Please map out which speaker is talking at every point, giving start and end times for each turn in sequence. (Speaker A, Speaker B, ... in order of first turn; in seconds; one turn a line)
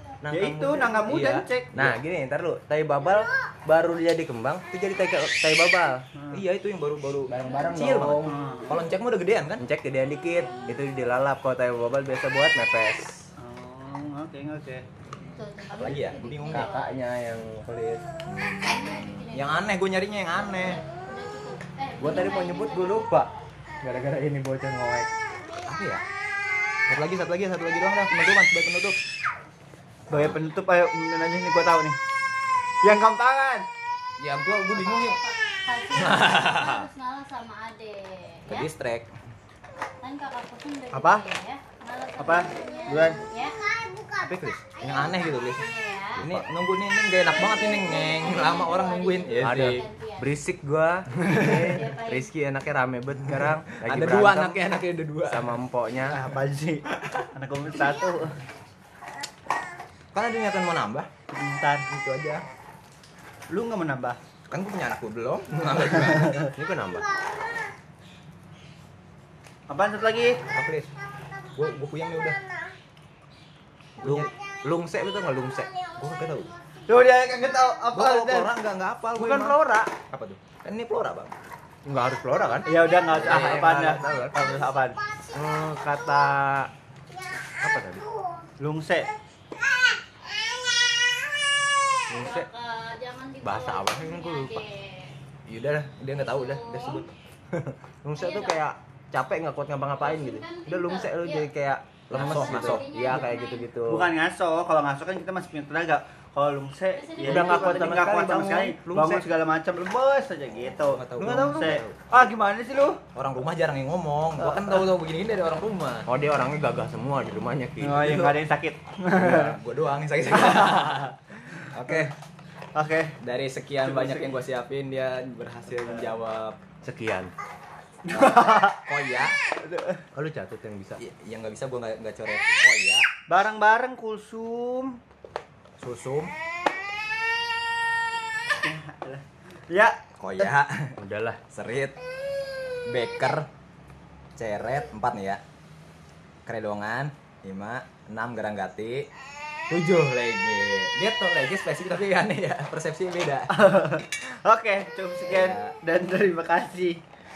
Speaker A: 0.2-1.2
Speaker B: 0.3-1.7
Speaker C: 1.1-2.0
Speaker A: 1.7-6.0
Speaker B: 6.2-6.4
Speaker C: 6.3-9.6
Speaker A: 7.3-8.4
Speaker B: 8.3-8.8
Speaker D: 8.5-8.8
Speaker A: 9.6-13.2
Speaker B: 13.4-14.8
Speaker C: 15.2-16.7
Speaker D: 15.4-16.9
Speaker A: 16.5-18.0
Speaker C: 18.3-20.8
Speaker D: 18.6-19.7
Speaker D: 20.5-23.1
Speaker A: 22.0-23.3
Speaker A: 23.8-25.1
Speaker C: 25.7-26.0
Speaker C: 26.9-29.0
Speaker B: 30.1-32.0
Speaker C: 30.1-30.4
Speaker B: 32.8-33.7
Speaker C: 34.2-35.2
Speaker D: 34.5-38.7
Speaker C: 36.0-36.9
Speaker C: 38.5-39.1
Speaker D: 40.0-43.6
Speaker B: 40.9-41.2
Speaker B: 42.2-43.2
Speaker A: 44.2-44.6
Speaker C: 44.8-45.6
Speaker D: 44.8-46.2
Speaker A: 46.2-46.5
Speaker C: 46.2-49.9
Speaker D: 47.2-50.3
Speaker A: 49.4-54.6
Speaker C: 51.2-51.6
Speaker D: 51.2-52.3
Speaker C: 53.3-55.6
Speaker A: 55.3-56.2
Speaker B: 56.1-58.4
Speaker C: 56.9-57.3
Speaker C: 60.1-61.1
Speaker B: 61.3-61.9
Speaker C: 61.9-62.4
Speaker B: 63.5-64.2
Speaker C: 64.5-66.5
Speaker B: 66.0-66.5
Speaker A: 66.5-67.1
Speaker B: 69.7-70.4
Speaker C: 70.5-70.9
Speaker C: 71.5-72.4
Speaker C: 74.0-74.3
Speaker A: 74.0-75.7
Speaker C: 76.0-76.5
Speaker B: 76.9-78.5
Speaker C: 77.9-79.6
Speaker A: 79.2-79.9
Speaker C: 80.1-81.4
Speaker A: 81.9-84.3
Speaker B: 82.7-85.0
Speaker C: 83.1-84.7
Speaker A: 85.3-86.7
Speaker A: 87.6-88.0
Speaker B: 88.6-89.1
Speaker A: 92.1-92.5
Speaker D: 92.2-95.1
Speaker A: 93.4-94.7
Speaker C: 95.5-97.1
Speaker D: 96.2-97.0
Speaker A: 97.5-104.1
Speaker D: 98.2-98.6
Speaker D: 100.0-101.5
Speaker C: 102.1-102.9
Speaker D: 102.1-103.7
Speaker B: 103.9-113.0
Speaker D: 107.0-108.1
Speaker A: 107.2-109.2
Speaker C: 110.7-112.0
Speaker C: 113.2-116.1
Speaker A: 116.1-118.4
Speaker B: 117.8-119.6
Speaker C: 119.1-122.1
Speaker B: 120.4-121.0
Speaker B: 121.8-122.1
Speaker B: 122.8-123.2
Speaker C: 123.2-126.6
Speaker B: 123.8-124.4
Speaker A: 126.8-127.3
Speaker B: 128.1-128.8
Speaker C: 128.1-129.4
Speaker B: 129.6-130.0
Speaker A: 130.1-131.0
Speaker C: 131.0-133.1
Speaker B: 133.3-135.0
Speaker C: 135.8-136.3
Speaker B: 138.6-140.0
Speaker C: 140.2-141.0
Speaker A: 141.0-141.4
Speaker C: 141.5-142.0
Speaker C: 142.9-143.5
Speaker C: 144.4-145.4
Speaker C: 146.4-149.1
Speaker C: 149.7-153.5
Speaker B: 153.5-157.0
Speaker C: 155.2-155.8